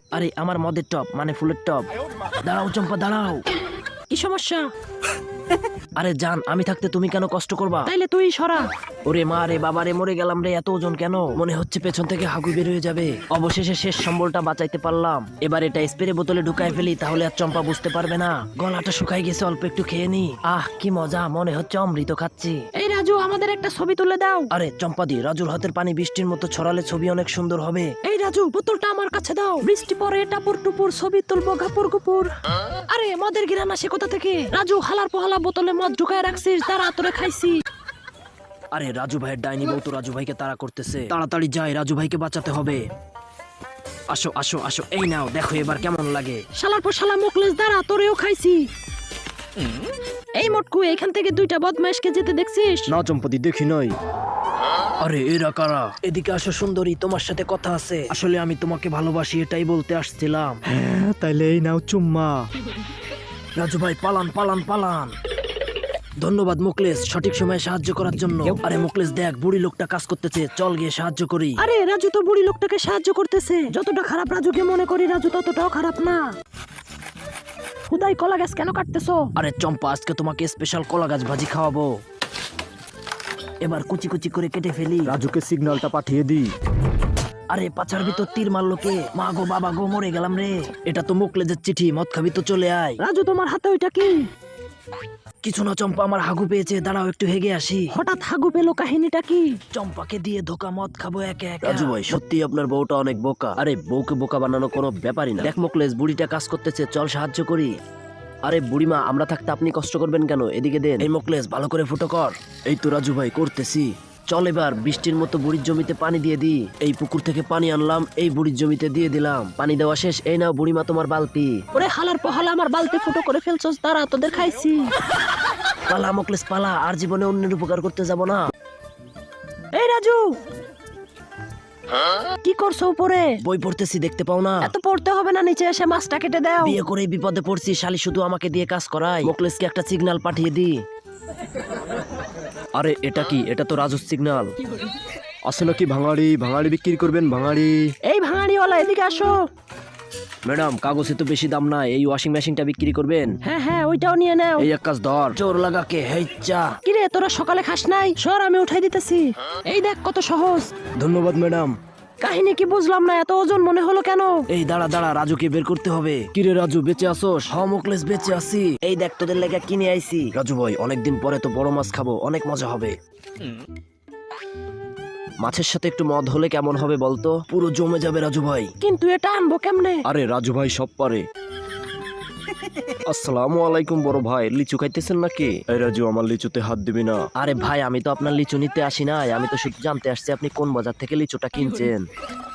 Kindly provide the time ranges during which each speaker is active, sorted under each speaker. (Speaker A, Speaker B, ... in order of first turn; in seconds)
Speaker A: 0.1-1.9, 2.4-3.4, 6.0-7.9, 9.1-22.6, 24.5-27.9, 38.7-42.8, 44.1-46.4, 52.9-53.9, 55.0-60.6, 63.6-65.1, 66.2-71.6, 79.3-81.9, 83.6-85.2, 87.5-93.0, 95.4-97.9, 99.7-107.7, 108.4-121.6, 125.9-128.5, 133.4-134.7, 136.6-140.8, 142.8-144.5, 145.5-147.8, 150.4-153.3, 154.6-156.7, 161.0-161.7, 164.5-172.9, 175.4-178.7, 180.1-181.2, 183.1-186.1, 187.3-192.0
Speaker B: 4.1-4.7, 7.8-8.6, 22.8-24.5, 28.0-32.3, 32.9-37.6, 46.5-48.6, 50.4-52.9, 71.6-76.2, 77.9-79.2, 93.0-94.2, 97.9-99.5, 121.7-124.9, 129.7-130.3, 132.4-133.3, 134.6-136.8, 148.1-149.3, 153.4-154.7, 156.8-160.7, 162.2-164.4, 178.8-180.0
Speaker C: 60.6-62.5, 85.0-86.5, 145.9-147.0, 185.8-187.2